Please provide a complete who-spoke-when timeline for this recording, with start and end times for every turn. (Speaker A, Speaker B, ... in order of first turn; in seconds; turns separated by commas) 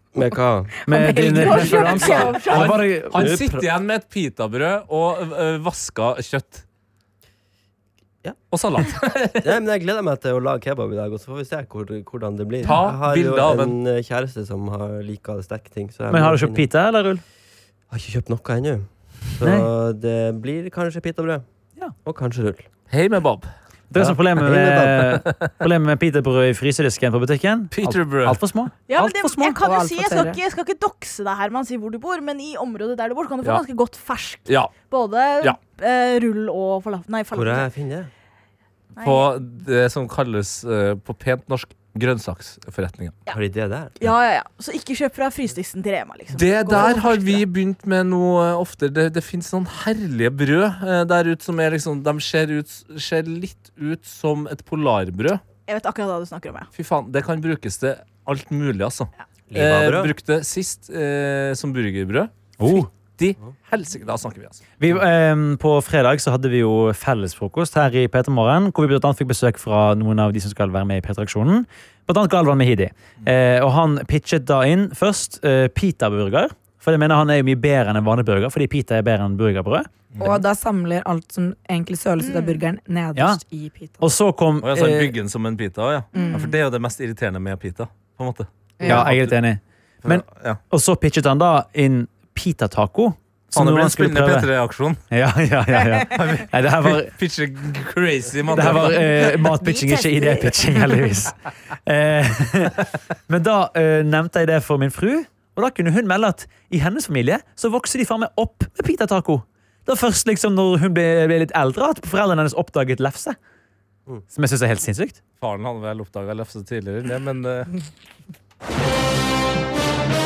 Speaker A: 0.1-0.7, Speaker B: 0.9-1.6, Speaker C: 0.9-3.6, Speaker D: 1.1-2.8, Speaker E: 1.6-6.6, Speaker A: 3.2-3.4, Speaker E: 8.5-9.5, Speaker A: 9.4-16.7, Speaker E: 12.6-13.7, Speaker C: 16.1-17.2, Speaker A: 17.9-21.4, Speaker C: 19.4-19.7, Speaker A: 22.0-22.7, Speaker E: 22.9-23.5, Speaker C: 23.9-29.6, Speaker A: 23.9-25.1, Speaker E: 25.2-25.5, Speaker E: 27.7-28.4, Speaker D: 28.9-37.7, Speaker B: 29.6-30.4, Speaker E: 34.5-34.7, Speaker A: 37.3-38.1, Speaker D: 39.0-39.3, Speaker E: 39.0-43.2, Speaker A: 43.3-44.0, Speaker D: 44.0-47.4, Speaker E: 46.3-55.4, Speaker D: 55.7-56.7, Speaker E: 56.7-64.6, Speaker A: 59.5-60.1, Speaker C: 62.6-62.9, Speaker C: 64.8-79.9, Speaker B: 80.2-84.0, Speaker D: 82.2-82.6, Speaker C: 83.2-83.4, Speaker C: 84.0-85.1, Speaker E: 84.6-89.3, Speaker B: 86.1-86.6, Speaker D: 86.2-86.4, Speaker B: 88.8-89.1, Speaker C: 88.8-94.5, Speaker E: 90.0-90.6, Speaker E: 93.5-95.0, Speaker C: 95.1-97.1, Speaker E: 96.1-99.0, Speaker C: 98.5-113.3, Speaker D: 98.7-100.8, Speaker C: 114.3-115.2, Speaker E: 115.4-117.7